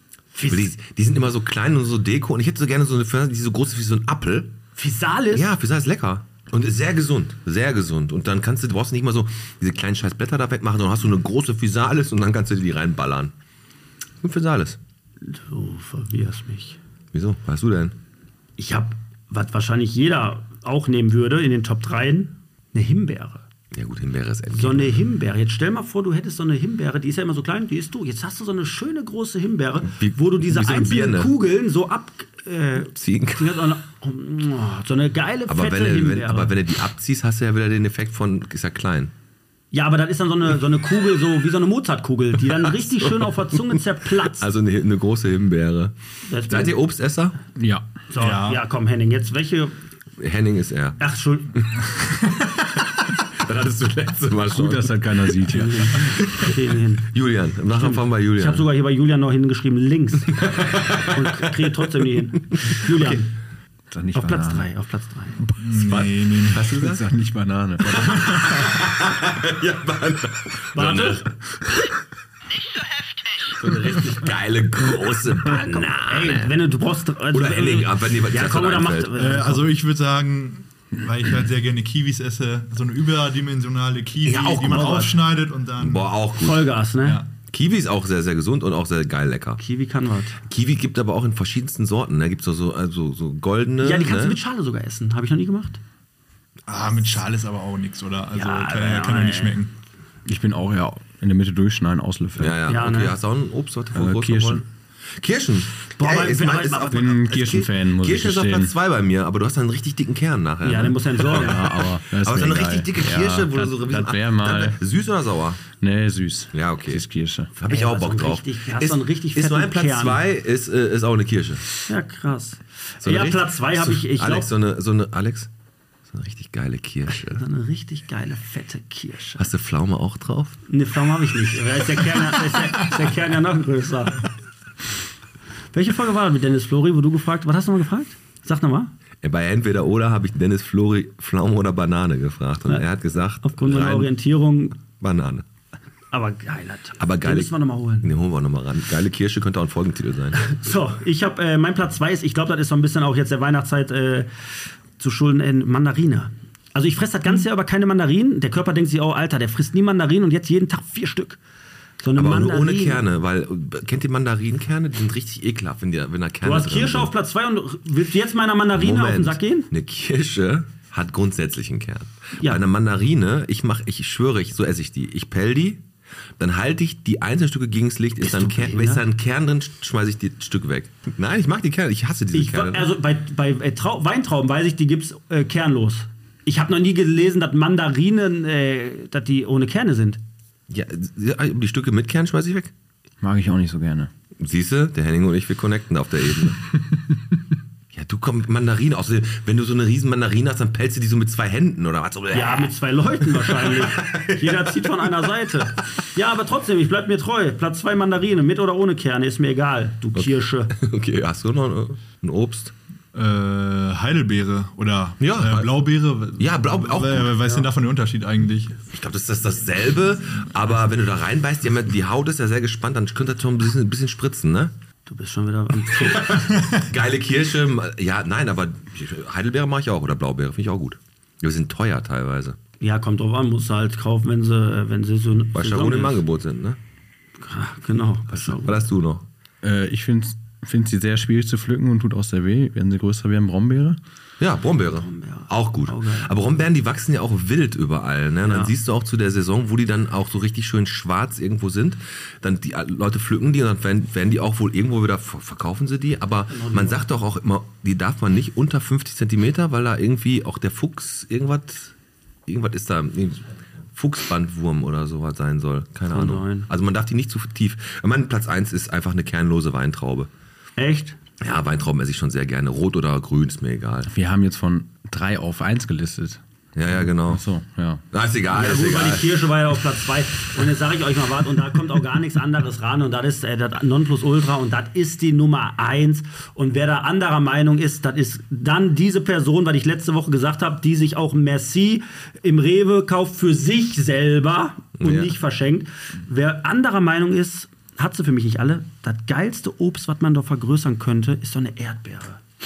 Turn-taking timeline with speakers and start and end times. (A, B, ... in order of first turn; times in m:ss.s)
0:00.4-0:00.7 A
0:00.5-0:04.6 B
0:04.8-0:05.6 A
0:05.3-0:13.3 B
0:14.2-0:14.8 B
0:15.2-0:16.8 A
0:17.1-0:18.0 B
0:18.6-0:23.4 A
0:23.7-0:25.1 B
0:24.5-0:36.6 A
0:29.8-0:31.3 B
0:32.9-0:33.6 B
0:35.5-0:39.1 B
0:39.7-0:44.5 A
0:42.5-0:45.9 B
0:46.3-0:46.8 A
0:46.4-0:47.4 B
0:47.6-0:47.8 C
0:48.1-0:49.8 A
0:48.2-0:48.6 D
0:50.2-0:51.0 B
0:51.0-0:51.5 A
0:51.5-0:56.6 B
0:54.5-0:56.1 C
0:55.6-0:57.1 A
0:57.1-0:58.7 B
0:57.7-1:00.4 A
1:00.3-1:01.8 B
1:01.0-1:03.3 A
1:02.5-1:03.2 B
1:03.9-1:04.7 C
1:04.1-1:05.4 A
1:05.5-1:06.7 D
1:05.7-1:07.1 B
1:06.6-1:08.8 C
1:07.9-1:11.9 B
1:10.8-1:11.2 A
1:13.6-1:16.7 B
1:13.6-1:14.2 A
1:15.5-1:19.7 A
1:17.3-1:19.1 B
1:19.2-1:26.1 D
1:24.2-1:25.1 B
1:24.6-1:25.2 A
1:25.8-1:26.7 B
1:26.4-1:27.2 A
1:27.0-1:27.3 D
1:27.5-1:29.6 B
1:29.6-1:30.4 A
1:30.5-1:34.4 B
1:33.8-1:35.8 A
1:36.7-1:39.7 D
1:38.3-1:39.6 A
1:40.3-1:42.6 C
1:42.4-1:55.6 B
1:42.7-1:43.2 A
1:43.9-1:44.6 C
1:46.0-1:47.1 A
1:46.9-1:48.7 C
1:50.6-1:51.6 A
1:51.3-1:54.8 C
1:55.8-1:57.5 C
1:56.5-1:57.0 B
1:57.6-2:01.7 B
1:57.6-2:00.2 A
2:01.9-2:04.5 A
2:03.0-2:05.5 B
2:06.1-2:07.4 B
2:07.1-2:09.5 A
2:09.4-2:10.6 B
2:10.7-2:14.3 A
2:15.7-2:18.9 A
2:19.2-2:24.1 B
2:23.4-2:24.8 A
2:24.8-2:25.4 B
2:26.1-2:28.1 A
2:27.0-2:30.4 B
2:30.4-2:34.3 A
2:35.0-2:41.4 A
2:42.0-2:43.0 A
2:42.2-2:47.1 B
2:46.4-2:49.7 A
2:48.7-2:55.8 B
2:52.4-2:52.6 A
2:56.4-3:02.9 B
2:58.2-2:59.0 A
3:02.3-3:10.2 A
3:10.7-3:12.7 B
3:13.2-3:14.1 C
3:14.4-3:16.6 B
3:17.9-3:25.3 B
3:22.3-3:30.7 A
3:30.2-3:32.7 B
3:33.1-3:38.8 D
3:35.2-3:35.7 B
3:36.4-3:37.4 B
3:37.4-3:37.7 A
3:38.9-3:44.7 B
3:45.1-3:46.5 A
3:45.9-3:52.6 B
3:52.8-3:56.2 A
3:55.5-3:56.8 B
3:57.4-3:58.8 A
3:58.3-3:59.2 B
3:59.6-4:04.0 C
4:04.4-4:21.9 B
4:05.0-4:06.3 A
4:08.4-4:08.7 A
4:16.5-4:17.0 A
4:22.5-4:30.3 B
4:26.1-4:26.7 A
4:30.8-4:31.2 A
4:31.4-4:34.1 B
4:34.1-4:38.0 C
4:36.8-4:37.4 B
4:38.1-4:39.4 B
4:38.5-5:02.4 A
4:55.0-4:55.3 B